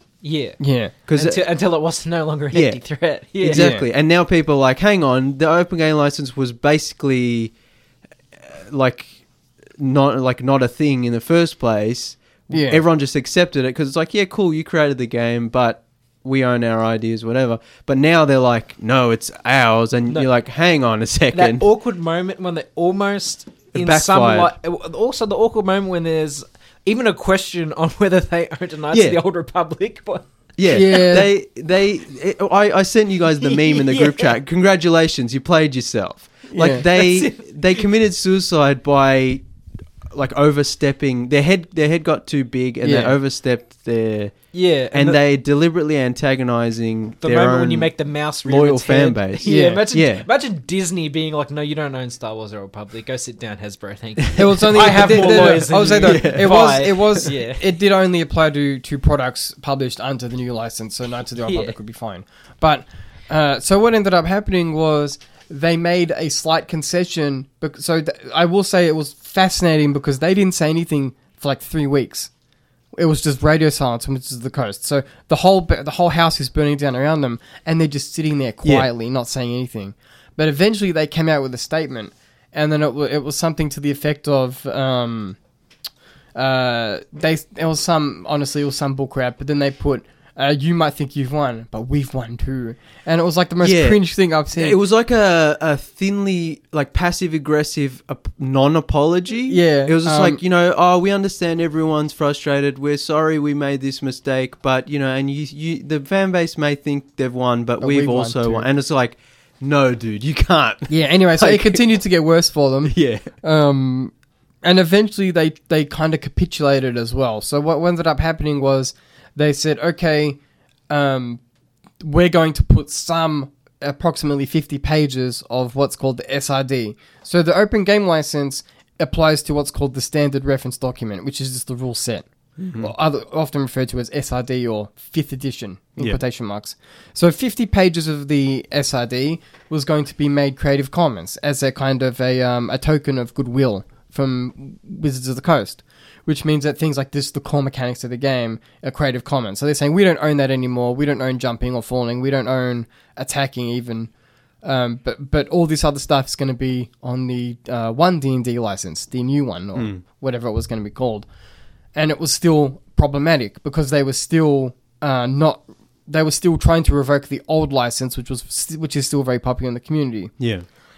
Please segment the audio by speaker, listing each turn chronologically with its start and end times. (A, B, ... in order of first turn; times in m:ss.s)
0:00.2-0:00.6 A
0:00.6-0:00.9 B
0:01.1-0:01.4 C
0:01.1-0:03.7 A
0:02.5-0:02.8 C
0:03.4-0:07.5 C
0:03.5-0:03.8 B
0:08.4-0:09.1 C
0:09.8-0:21.6 C
0:12.5-0:12.8 B
0:21.3-0:30.2 A
0:23.7-0:24.5 C
0:28.9-0:29.2 C
0:30.6-0:39.4 C
0:30.7-0:31.3 B
0:33.4-0:34.3 A
0:36.5-0:36.8 B
0:36.8-0:37.8 A
0:40.1-0:44.3 C
0:42.8-0:43.2 B
0:44.5-0:45.2 A
0:44.9-0:47.9 C
0:47.2-0:57.7 A
0:48.4-0:50.2 C
0:49.4-0:49.8 B
0:54.3-0:57.2 C
0:54.4-1:12.3 B
1:01.4-1:01.7 A
1:12.9-1:25.4 B
1:26.4-1:34.8 B
1:33.6-1:34.0 C
1:34.5-1:51.8 C
1:39.5-1:40.4 B
1:47.8-1:48.7 B
1:50.9-2:00.4 B
1:52.8-1:53.3 C
2:00.9-2:01.4 B
2:02.0-2:12.2 B
2:12.6-2:12.9 C
2:12.8-2:34.1 B
2:34.6-2:41.3 B
2:39.7-2:40.0 C
2:41.9-2:50.3 B
2:50.4-2:50.6 C